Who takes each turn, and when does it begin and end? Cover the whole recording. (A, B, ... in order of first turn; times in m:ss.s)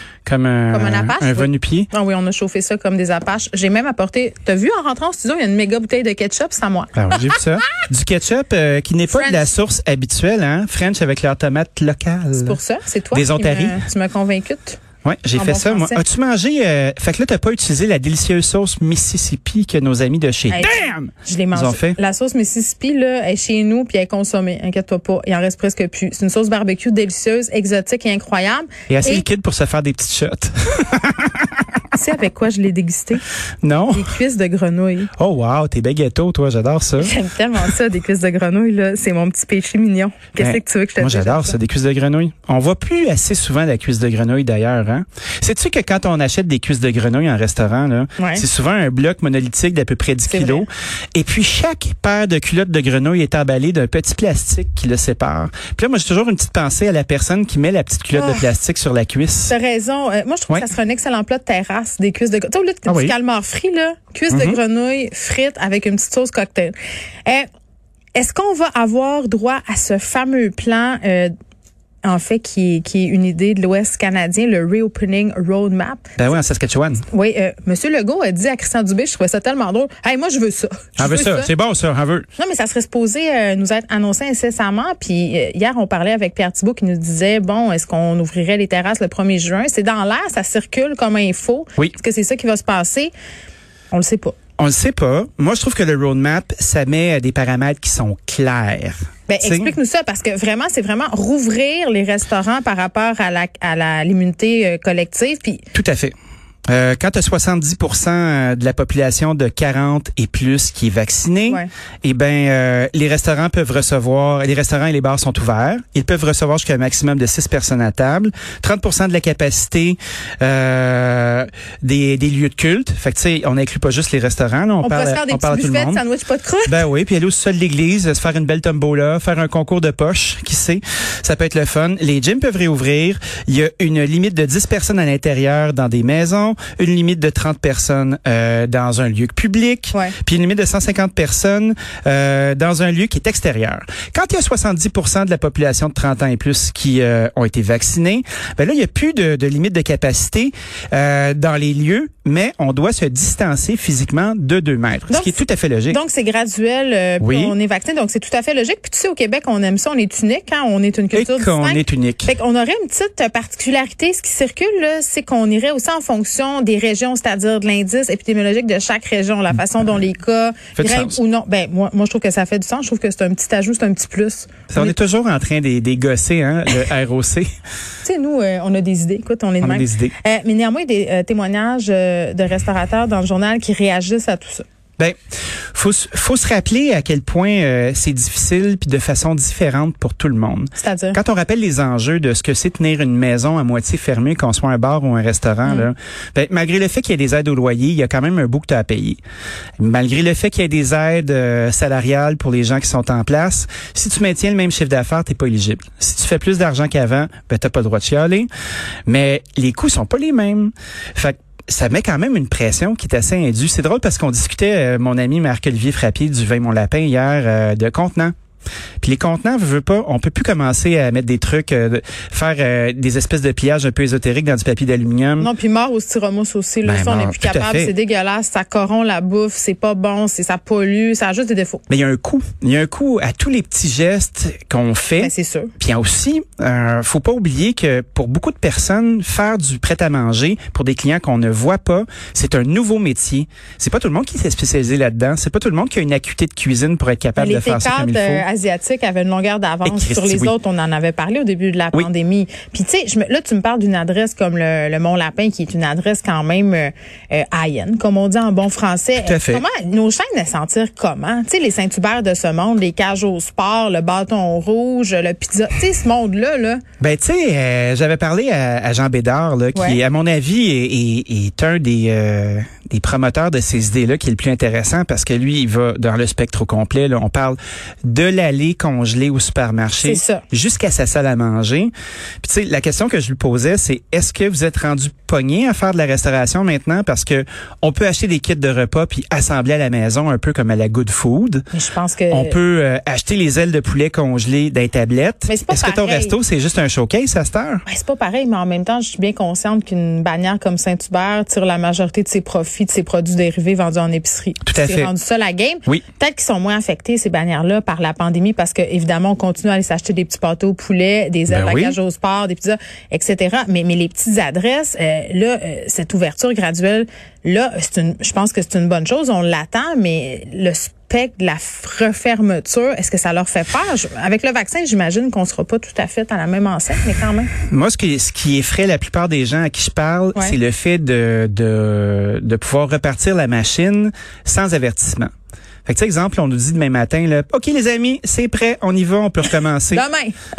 0:00.2-0:01.9 A
0:00.7-0:07.3 B
0:07.0-0:12.6 A
0:09.1-0:09.5 B
0:12.4-0:14.8 B
0:13.1-0:13.8 A
0:15.0-0:22.0 A
0:15.4-0:16.0 B
0:20.5-0:29.3 B
0:28.9-0:31.6 A
0:31.9-0:33.2 B
0:33.6-0:34.1 A
0:33.9-0:35.1 B
0:35.2-0:37.1 A
0:37.0-0:41.6 B
0:40.4-0:59.6 A
0:48.2-0:48.4 B
0:50.3-0:50.7 B
0:58.1-0:58.4 B
0:59.5-1:06.7 B
1:02.9-1:03.1 A
1:04.3-1:04.6 A
1:08.2-1:11.3 B
1:12.0-1:16.2 B
1:16.2-1:17.0 A
1:17.1-1:21.5 B
1:21.0-1:22.3 A
1:22.4-1:33.1 B
1:33.9-1:34.4 B
1:34.6-1:39.7 A
1:39.3-1:45.6 B
1:45.7-1:46.1 A
1:46.7-2:06.0 A
2:04.8-2:06.8 B
2:06.7-2:36.0 A
2:35.1-2:54.9 B
2:37.2-2:37.6 A
2:41.1-2:42.3 A
2:50.8-2:51.2 A
2:54.7-2:57.5 A
2:58.0-3:04.6 B
2:59.6-3:00.1 A
3:05.7-3:19.2 A
3:10.8-3:11.2 B
3:19.8-3:28.5 A
3:29.1-3:38.3 A
3:39.0-3:45.5 A
3:45.4-3:51.8 B
3:46.8-3:47.9 A
3:51.9-4:08.4 A
3:55.2-3:55.7 B
4:07.4-4:26.8 B
4:09.8-4:10.5 A
4:19.2-4:19.6 A
4:27.0-4:41.9 A
4:29.7-4:30.0 B
4:40.0-4:40.4 B
4:42.4-4:51.7 A
4:51.7-4:52.6 B
4:52.3-4:57.8 A
4:55.5-4:56.4 B
4:57.8-5:27.5 B
5:04.6-5:05.1 A
5:11.5-5:12.0 A
5:27.7-5:35.3 A
5:35.8-5:40.0 A
5:39.9-5:40.3 B